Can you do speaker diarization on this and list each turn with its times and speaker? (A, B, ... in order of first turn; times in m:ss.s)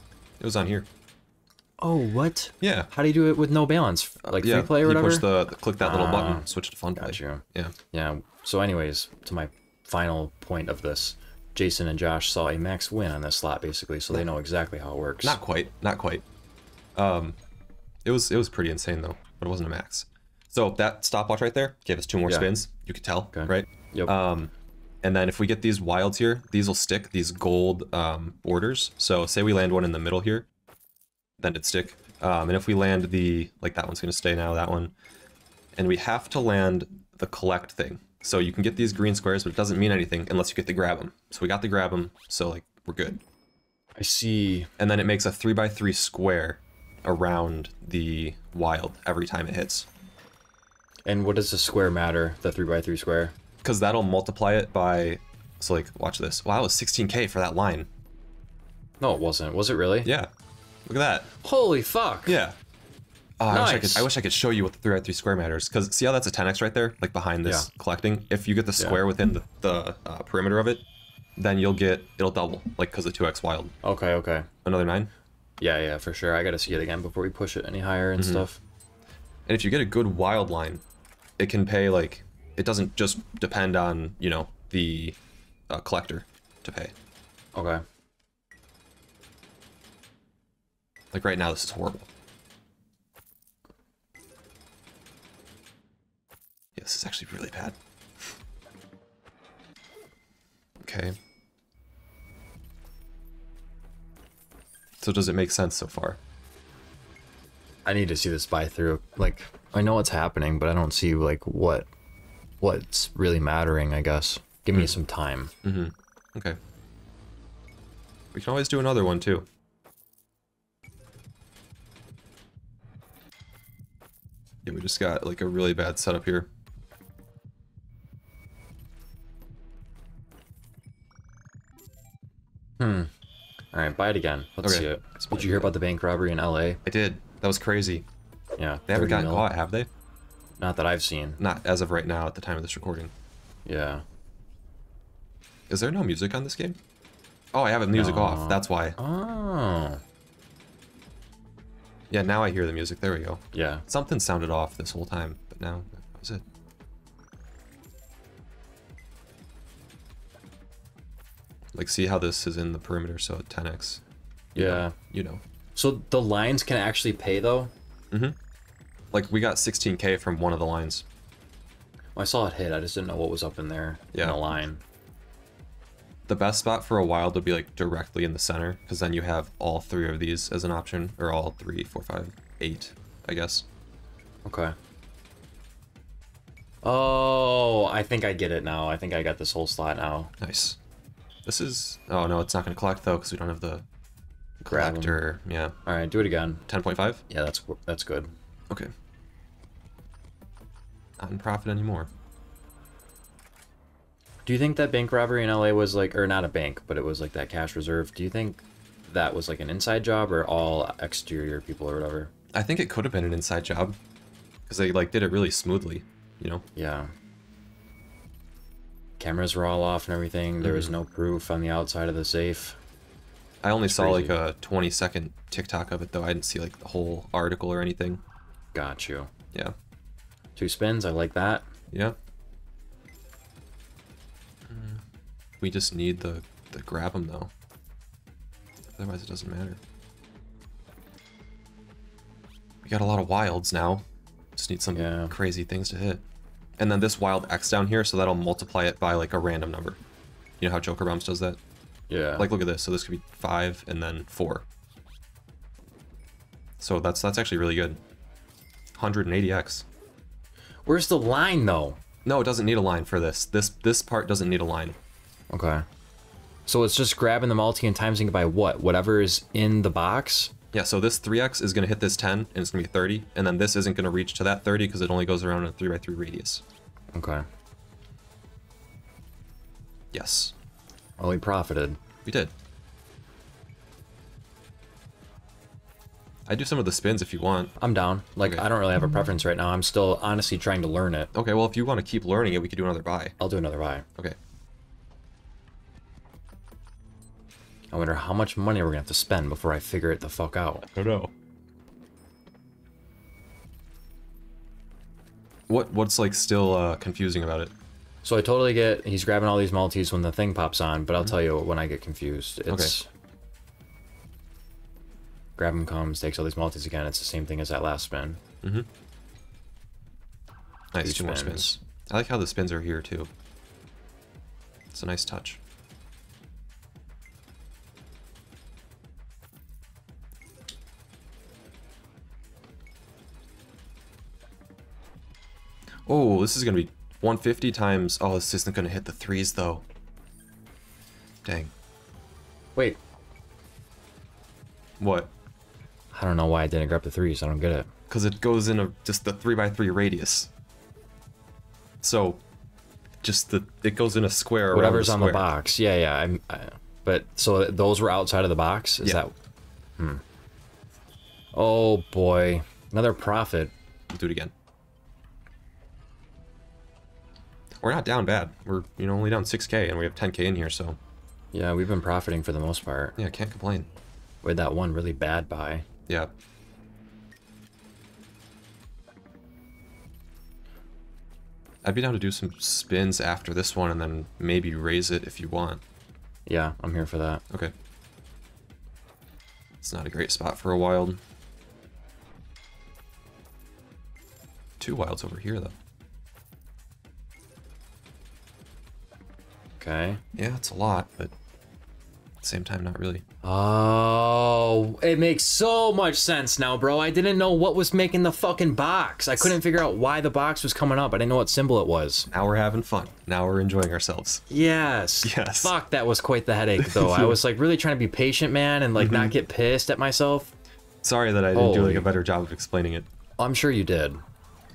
0:00.4-0:00.9 A
0:01.8-0:05.3 B
0:02.6-0:02.9 A
0:04.3-0:07.7 A
0:05.8-0:06.5 B
0:07.0-0:15.4 B
0:15.2-0:16.2 A
0:17.0-0:17.4 A
0:18.0-0:24.5 A
0:23.3-0:24.1 B
0:25.0-0:30.5 A
0:31.4-0:34.9 A
0:35.8-0:43.2 A
0:44.0-0:44.7 B
0:44.8-0:49.9 A
0:51.1-0:53.4 B
0:53.6-0:57.9 A
0:59.0-1:00.1 B
1:00.0-1:00.3 A
1:00.9-1:01.3 A
1:01.4-1:02.4 B
1:02.3-1:02.6 A
1:03.4-1:10.8 A
1:03.5-1:04.1 B
1:11.4-1:13.7 A
1:13.8-1:14.5 B
1:14.6-1:15.1 A
1:15.6-1:18.6 B
1:18.2-1:18.4 A
1:19.5-1:20.8 A
1:21.4-1:25.2 A
1:25.7-1:26.9 A
1:27.6-1:27.8 B
1:31.1-1:32.1 A
1:36.8-1:38.3 A
1:40.8-1:41.2 A
1:45.0-1:46.2 A
1:47.9-1:51.9 B
1:52.6-1:55.5 B
1:55.6-1:56.6 A
1:58.3-1:59.5 A
2:04.6-2:06.5 A
2:12.8-2:13.1 B
2:13.7-2:16.8 B
2:14.6-2:15.7 A
2:16.8-2:18.1 A
2:18.6-2:19.5 B
2:18.9-2:19.9 A
2:20.6-2:21.4 B
2:21.4-2:23.1 A
2:23.7-2:24.0 B
2:25.7-2:26.8 A
2:27.5-2:29.0 A
2:27.9-2:30.0 B
2:32.1-2:36.4 A
2:33.5-2:33.8 B
2:41.7-2:44.0 A
2:44.6-2:45.4 A
2:44.6-2:45.0 B
2:45.8-2:47.7 B
2:48.1-2:48.4 A
2:49.1-2:51.0 A
2:52.2-2:54.8 B
2:54.1-2:54.4 A
2:56.3-3:03.7 A
3:04.5-3:04.8 B
3:06.8-3:10.3 B
3:10.4-3:10.8 A
3:11.4-3:13.8 A
3:14.6-3:15.8 A
3:14.7-3:15.2 B
3:15.9-3:16.6 B
3:16.7-3:17.2 A
3:17.3-3:18.3 B
3:21.2-3:22.1 A
3:24.5-3:32.3 B
3:32.5-3:34.0 A
3:34.7-3:36.6 A
3:36.8-3:37.1 B
3:39.2-3:42.8 B
3:40.6-3:40.9 A
3:43.6-3:48.2 A
3:43.9-3:44.4 B
3:48.7-3:49.3 B
3:50.6-3:51.7 B
3:51.9-3:52.2 A
3:54.7-3:55.0 A
3:55.6-3:57.5 A
3:58.9-3:59.8 A
4:02.8-4:04.0 A
4:04.6-4:06.2 A
4:04.9-4:05.3 B
4:06.8-4:10.0 A
4:10.6-4:11.6 A
4:12.1-4:12.5 B
4:12.4-4:14.7 A
4:16.8-4:18.0 A
4:19.0-4:19.9 A
4:20.9-4:22.0 B
4:22.2-4:25.0 A
4:25.5-4:25.8 B
4:26.7-4:30.5 B
4:30.7-4:36.6 A
4:37.1-4:37.4 B
4:40.1-4:40.5 A
4:41.2-4:42.0 B
4:42.2-4:42.5 A
4:46.5-4:47.7 A
4:47.8-4:51.3 B
4:51.3-4:53.4 A
4:53.4-4:54.1 B
4:57.9-5:00.9 B
5:00.8-5:01.3 A
5:05.7-5:07.7 A
5:08.2-5:13.1 B
5:15.6-5:18.4 B
5:18.6-5:18.9 A
5:20.9-5:23.3 A
5:21.0-5:21.7 B
5:24.9-5:25.6 A
5:36.1-5:39.9 A
5:41.4-5:41.7 A
5:45.0-5:45.3 A
5:46.1-5:47.9 B
5:48.1-5:50.5 A
5:52.0-5:52.4 A
5:53.2-5:55.5 A
5:54.7-5:59.3 B
6:01.5-6:03.7 B
6:04.1-6:04.5 A
6:07.8-6:11.0 A
6:11.5-6:13.2 B
6:13.2-6:13.9 A
6:14.4-6:15.9 B
6:16.1-6:16.3 A
6:21.8-6:25.8 A
6:26.5-6:27.4 B
6:29.8-6:31.2 A
6:34.8-6:35.8 A
6:39.8-6:40.2 B
6:40.4-6:41.3 A
6:42.4-6:43.2 A
6:43.4-6:52.3 B
6:52.3-6:54.4 A
6:54.5-7:00.5 B
6:55.2-6:55.7 A
6:56.8-6:57.4 A
6:59.0-6:59.3 A
7:01.0-7:03.1 A
7:01.5-7:02.1 B
7:03.4-7:04.2 B